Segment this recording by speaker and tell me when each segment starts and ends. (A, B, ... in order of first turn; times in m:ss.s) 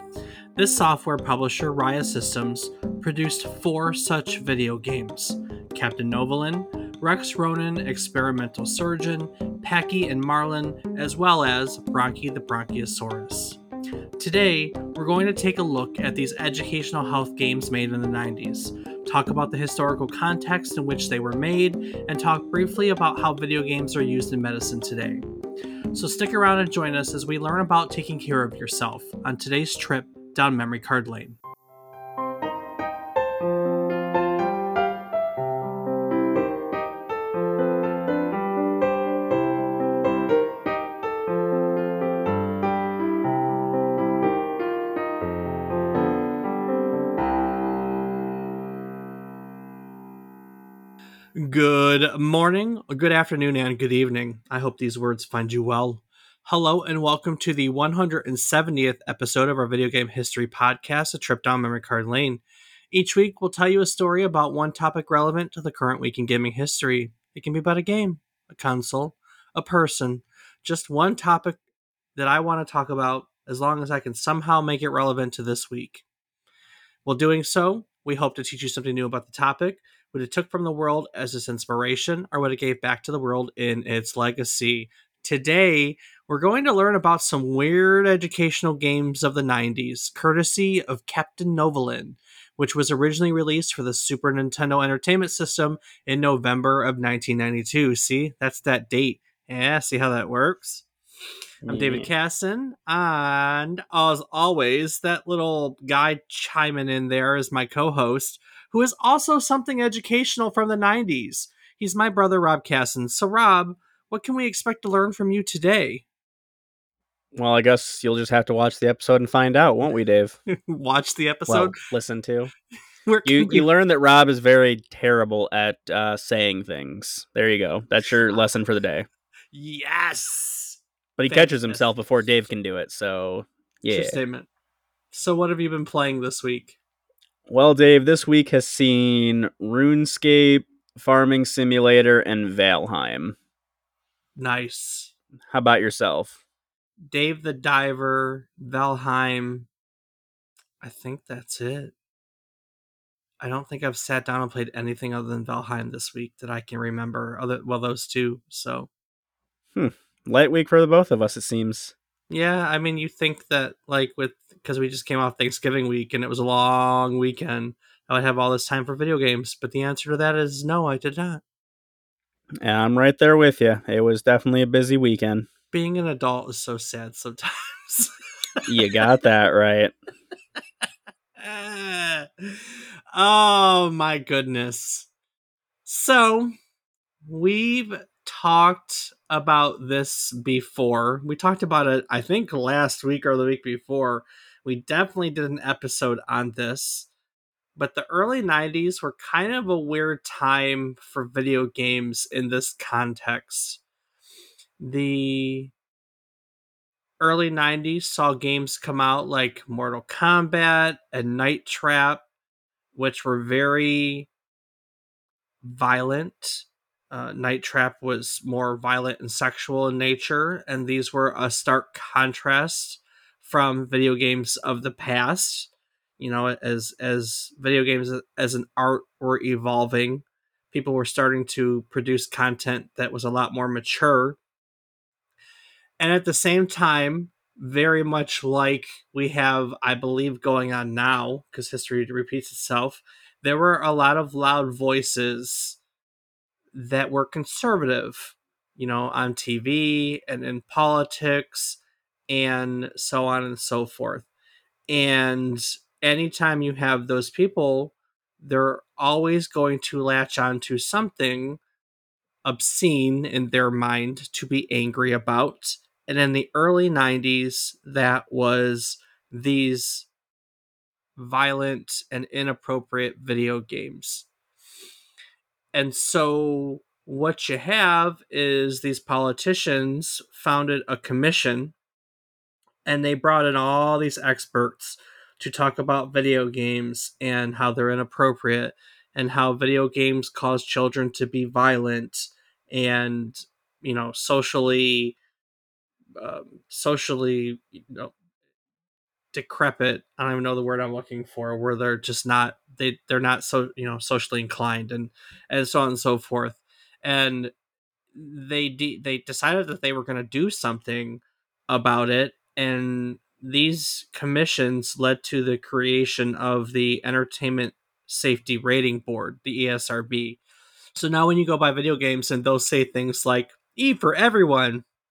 0:00.6-0:13.6 A
0:14.2-0:25.2 A
0:25.9-0:31.4 A
0:51.4-1:11.6 A
1:12.2-1:16.0 A
1:17.0-1:40.8 A
1:41.6-1:42.1 B
1:41.7-1:56.0 A
1:57.3-2:00.4 B
2:00.6-2:01.8 A
2:01.5-2:02.5 B
2:03.1-2:03.7 A
2:03.2-2:09.1 B
2:09.5-2:11.8 A
2:11.2-2:14.2 B
2:13.9-2:14.5 A
2:15.1-2:16.8 A
2:17.5-2:23.4 B
2:24.4-2:25.1 A
2:25.5-2:26.4 B
2:27.1-2:29.7 A
2:30.8-2:31.9 A
2:33.4-2:38.9 A
2:39.8-2:41.9 B
2:42.3-2:51.4 A
2:52.6-2:55.5 B
2:55.7-2:58.6 A
2:58.7-2:59.9 B
3:01.4-3:05.1 A
3:05.9-3:06.5 A
3:07.3-3:17.1 A
3:17.8-3:23.8 A
3:24.8-3:25.7 A
3:27.2-3:32.2 A
3:33.0-3:34.3 A
3:35.6-3:54.4 A
3:56.0-4:05.8 A
4:06.7-4:14.3 A
4:14.9-4:21.6 A
4:22.4-4:30.1 A
4:31.2-4:34.3 A
4:35.7-4:41.7 A
4:42.9-4:55.2 A
4:56.2-4:58.1 A
4:59.3-5:07.5 A
5:08.2-5:20.4 A
5:21.0-5:24.8 A